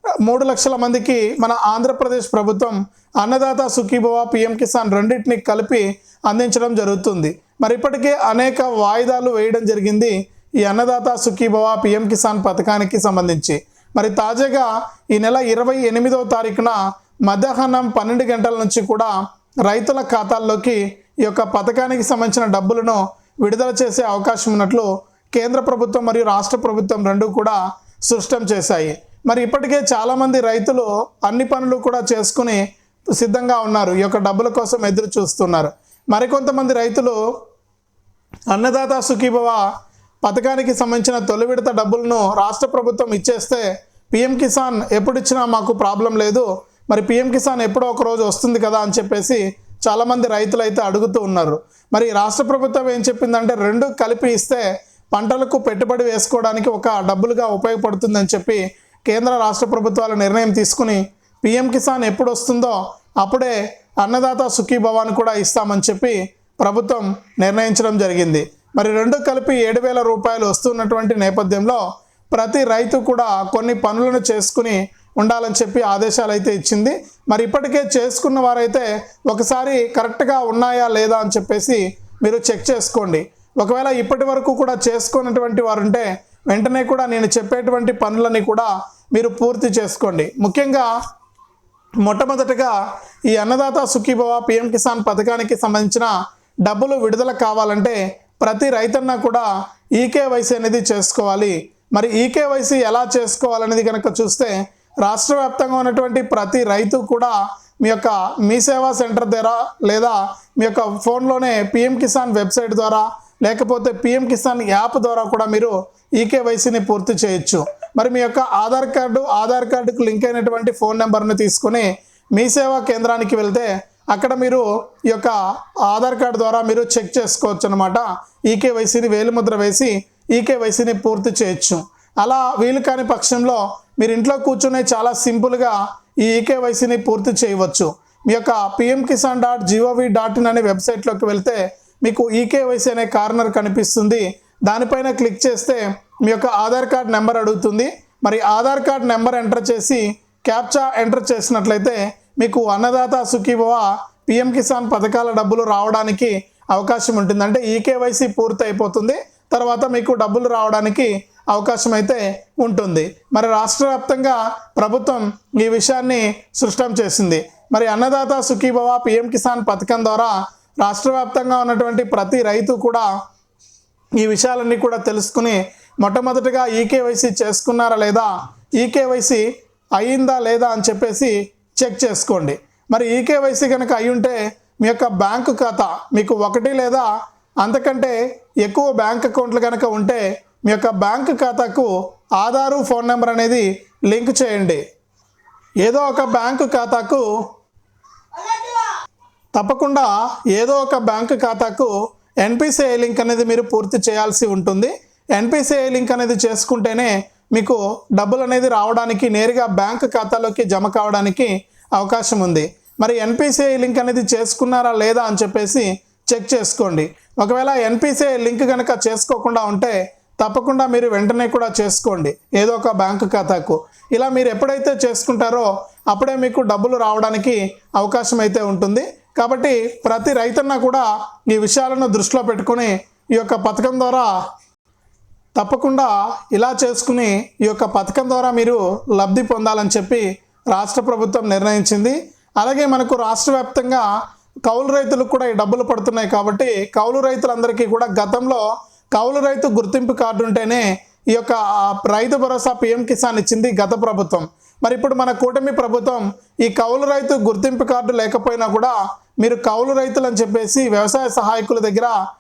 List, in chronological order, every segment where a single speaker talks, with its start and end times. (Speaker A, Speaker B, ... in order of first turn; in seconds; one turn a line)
Speaker A: 0.3-19.1
Speaker A: 19.7-32.6
Speaker A: 33.2-37.2
Speaker A: 38.5-39.6
Speaker A: 40.2-54.6
Speaker A: 55.1-71.8
Speaker A: 72.3-90.9
Speaker A: 92.0-92.7
Speaker A: 93.3-96.1
Speaker A: 96.7-125.3
Speaker A: 125.9-173.1
Speaker A: 174.2-179.4
Speaker A: 180.0-187.1
Speaker A: 187.6-194.8
Speaker A: 195.8-197.3
Speaker A: 199.6-201.9
Speaker A: 202.4-234.3
Speaker A: 235.6-244.1
Speaker A: 244.7-248.6
Speaker A: 249.2-262.1